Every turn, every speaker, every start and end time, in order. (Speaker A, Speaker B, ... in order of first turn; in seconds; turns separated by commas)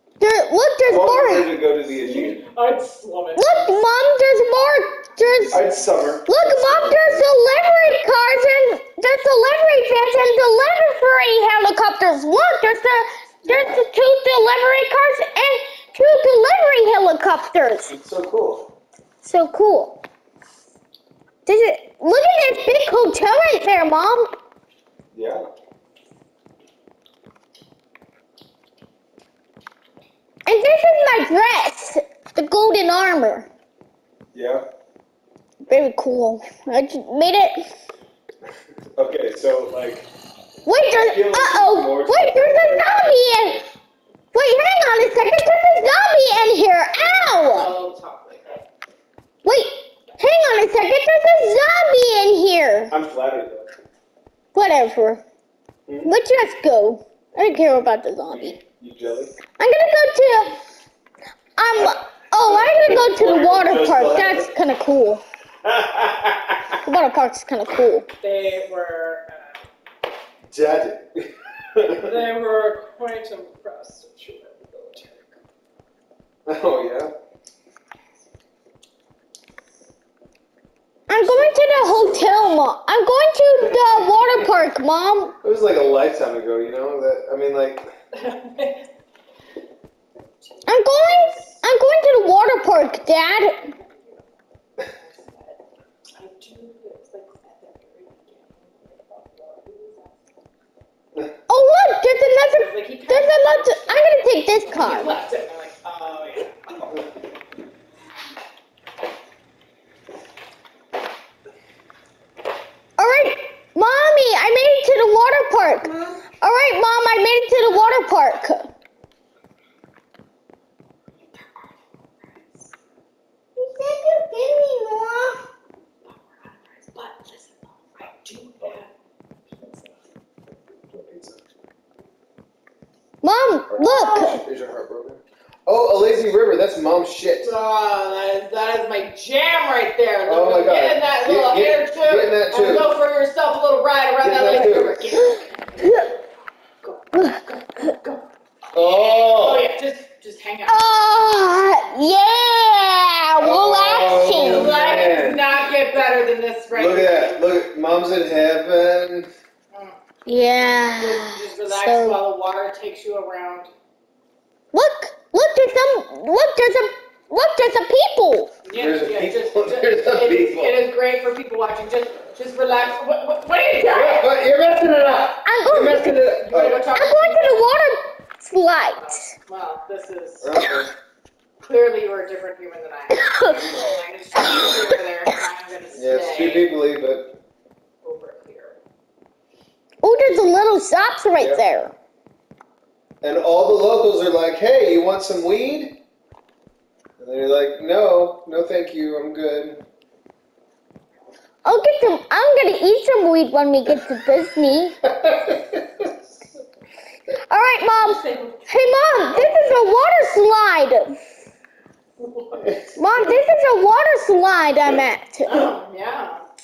Speaker A: 0.2-1.5, Speaker B: 0.8-2.4, Speaker C: 2.0-3.6, Speaker A: 3.4-5.7, Speaker B: 5.5-7.3, Speaker A: 6.2-17.9, Speaker B: 13.4-13.8, Speaker B: 17.9-18.7, Speaker A: 19.2-20.0, Speaker A: 21.4-24.3, Speaker B: 25.1-25.4, Speaker A: 30.4-33.5, Speaker B: 34.3-34.6, Speaker A: 35.7-37.7, Speaker B: 39.0-40.1, Speaker A: 40.6-43.6, Speaker B: 40.9-43.5, Speaker A: 44.3-47.7, Speaker C: 47.4-48.6, Speaker A: 49.4-52.9, Speaker B: 52.9-53.7, Speaker A: 54.5-55.2, Speaker B: 55.9-56.1, Speaker A: 56.0-58.6, Speaker B: 58.3-59.3, Speaker A: 59.6-60.6, Speaker A: 61.6-65.2, Speaker B: 62.3-64.5, Speaker B: 65.6-66.8, Speaker A: 66.8-68.1, Speaker C: 68.2-69.6, Speaker B: 70.5-72.2, Speaker C: 71.9-75.3, Speaker B: 76.5-77.1, Speaker A: 81.1-85.3, Speaker B: 81.2-82.4, Speaker B: 83.6-84.4, Speaker B: 85.4-87.9, Speaker C: 88.1-88.9, Speaker C: 90.6-91.5, Speaker A: 90.7-93.7, Speaker C: 94.8-95.6, Speaker C: 96.2-100.2, Speaker A: 101.5-105.1, Speaker C: 102.5-106.9, Speaker A: 113.0-118.7, Speaker D: 115.8-116.3, Speaker D: 123.5-125.4, Speaker C: 126.0-128.9, Speaker B: 130.9-131.4, Speaker A: 133.2-134.4, Speaker B: 133.7-137.5, Speaker C: 137.4-145.5, Speaker B: 140.2-142.9, Speaker B: 144.2-145.2, Speaker A: 145.8-146.1, Speaker A: 147.1-148.0, Speaker B: 148.7-149.7, Speaker C: 148.7-150.9, Speaker A: 150.7-154.7, Speaker B: 153.4-155.4, Speaker C: 154.1-157.4, Speaker B: 156.7-159.3, Speaker C: 159.7-160.0, Speaker A: 160.2-162.2, Speaker C: 160.6-163.7, Speaker A: 164.7-168.5, Speaker C: 168.6-174.5, Speaker B: 168.7-170.8, Speaker B: 173.8-176.9, Speaker A: 175.4-176.2, Speaker C: 176.2-177.6, Speaker A: 176.9-179.2, Speaker C: 179.0-180.6, Speaker B: 180.4-180.9, Speaker C: 181.6-186.7, Speaker A: 183.1-183.8, Speaker B: 185.9-187.3, Speaker C: 188.0-188.8, Speaker A: 190.0-191.9, Speaker B: 193.2-196.0, Speaker B: 197.2-199.8, Speaker A: 201.6-205.0, Speaker B: 205.1-205.9, Speaker A: 207.5-211.1, Speaker C: 207.9-208.8, Speaker B: 209.4-209.7, Speaker B: 212.4-213.4, Speaker A: 212.9-215.6, Speaker C: 215.4-216.4